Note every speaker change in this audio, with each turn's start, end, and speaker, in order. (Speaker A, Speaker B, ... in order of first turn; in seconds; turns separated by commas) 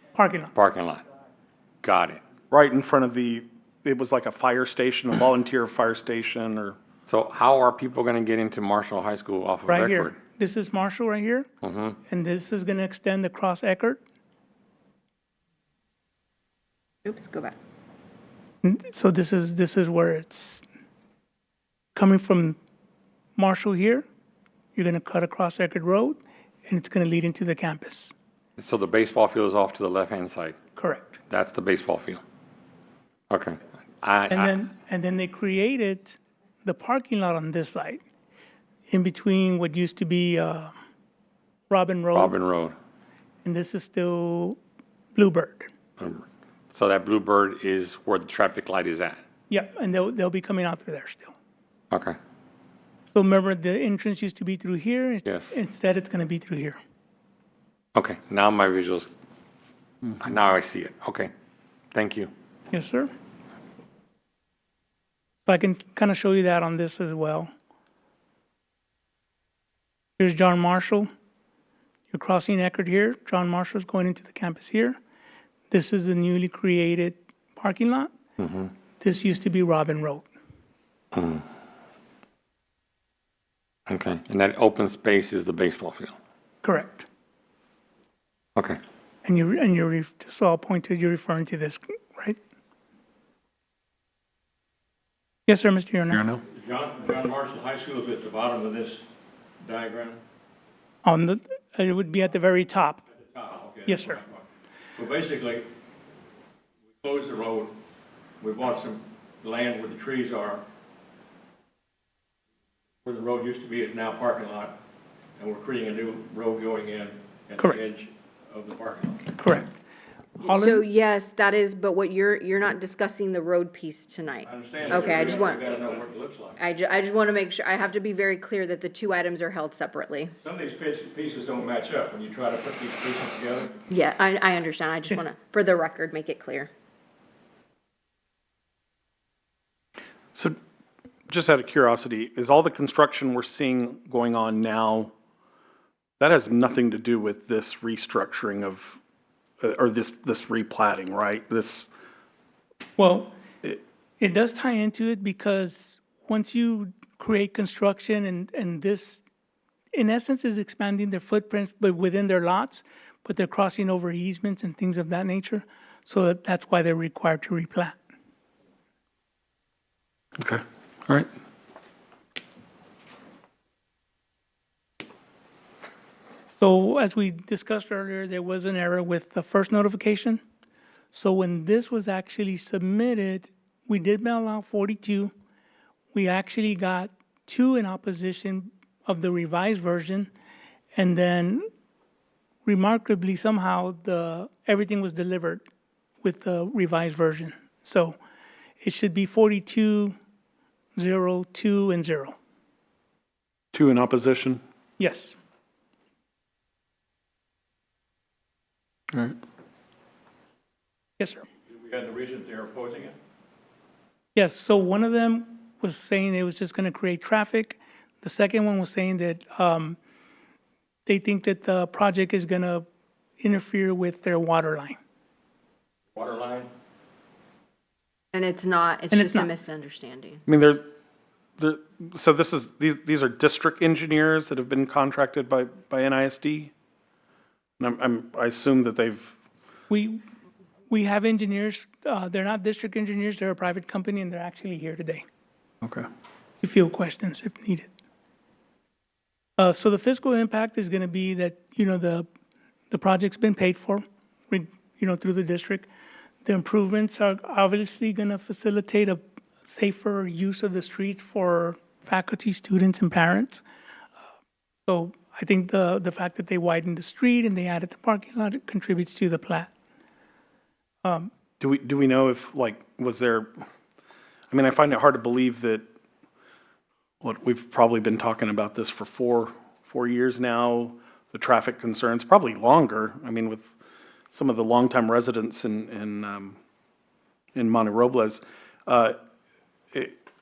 Speaker A: 0.1-0.5, Speaker B: 0.5-1.0, Speaker B: 1.8-2.2, Speaker C: 2.5-6.8, Speaker B: 7.1-10.2, Speaker A: 9.7-11.5, Speaker B: 11.6-12.0, Speaker A: 12.1-14.0, Speaker D: 17.0-17.5, Speaker A: 18.6-20.6, Speaker A: 21.9-22.6, Speaker A: 23.4-24.1, Speaker A: 24.7-28.1, Speaker B: 28.6-30.6, Speaker A: 30.8-31.2, Speaker B: 31.3-32.2, Speaker B: 33.3-34.6, Speaker A: 34.3-38.0, Speaker A: 38.9-40.7, Speaker A: 41.7-42.3, Speaker B: 42.1-42.8, Speaker A: 43.4-44.6, Speaker A: 45.1-45.7, Speaker B: 46.0-49.2, Speaker A: 49.5-51.3, Speaker B: 51.9-52.2, Speaker A: 53.1-56.8, Speaker B: 55.2-55.5, Speaker B: 57.9-59.1, Speaker B: 60.2-61.3, Speaker B: 61.9-62.3, Speaker A: 62.7-63.1, Speaker A: 65.5-67.5, Speaker A: 70.2-71.1, Speaker A: 72.1-75.0, Speaker A: 75.7-78.1, Speaker B: 78.4-78.7, Speaker A: 79.0-80.3, Speaker B: 81.1-81.4, Speaker B: 83.9-86.1, Speaker A: 86.6-87.1, Speaker A: 89.2-92.4, Speaker A: 95.5-96.2, Speaker C: 96.1-96.4, Speaker E: 96.5-99.0, Speaker E: 99.6-100.2, Speaker A: 101.0-103.0, Speaker E: 103.2-104.4, Speaker A: 103.8-104.2, Speaker E: 105.0-105.7, Speaker E: 107.0-107.8, Speaker E: 108.4-110.6, Speaker E: 113.0-114.8, Speaker E: 115.4-119.3, Speaker A: 119.4-119.7, Speaker D: 120.4-125.7, Speaker A: 120.4-120.8, Speaker E: 124.4-126.6, Speaker D: 126.6-130.3, Speaker E: 130.4-133.7, Speaker D: 133.9-136.7, Speaker C: 141.3-145.1, Speaker C: 146.2-149.0, Speaker C: 149.6-151.9, Speaker A: 153.0-153.3, Speaker A: 154.2-159.2, Speaker A: 159.9-168.0, Speaker C: 170.4-171.3, Speaker A: 176.6-180.4, Speaker A: 181.1-185.3, Speaker A: 186.1-190.3, Speaker A: 190.9-191.7, Speaker A: 192.6-195.6, Speaker A: 196.2-198.2, Speaker A: 198.8-200.1, Speaker A: 200.9-202.3, Speaker C: 203.7-204.6, Speaker A: 205.0-205.3, Speaker A: 211.2-211.4, Speaker E: 211.7-213.2, Speaker A: 214.3-220.0, Speaker A: 221.1-222.8, Speaker A: 223.4-225.0, Speaker E: 226.1-226.7, Speaker D: 228.3-230.4, Speaker A: 229.1-229.5, Speaker C: 230.5-230.9, Speaker C: 231.6-236.7, Speaker C: 237.8-239.3, Speaker A: 239.9-240.2, Speaker A: 240.9-245.2, Speaker C: 245.8-246.1, Speaker A: 246.6-247.9, Speaker A: 249.6-252.3, Speaker A: 252.9-255.9, Speaker A: 256.4-263.6, Speaker A: 264.9-269.7, Speaker A: 271.0-271.3, Speaker C: 271.6-273.6, Speaker C: 274.5-275.9, Speaker C: 277.2-283.7, Speaker C: 284.3-286.6, Speaker C: 287.5-289.1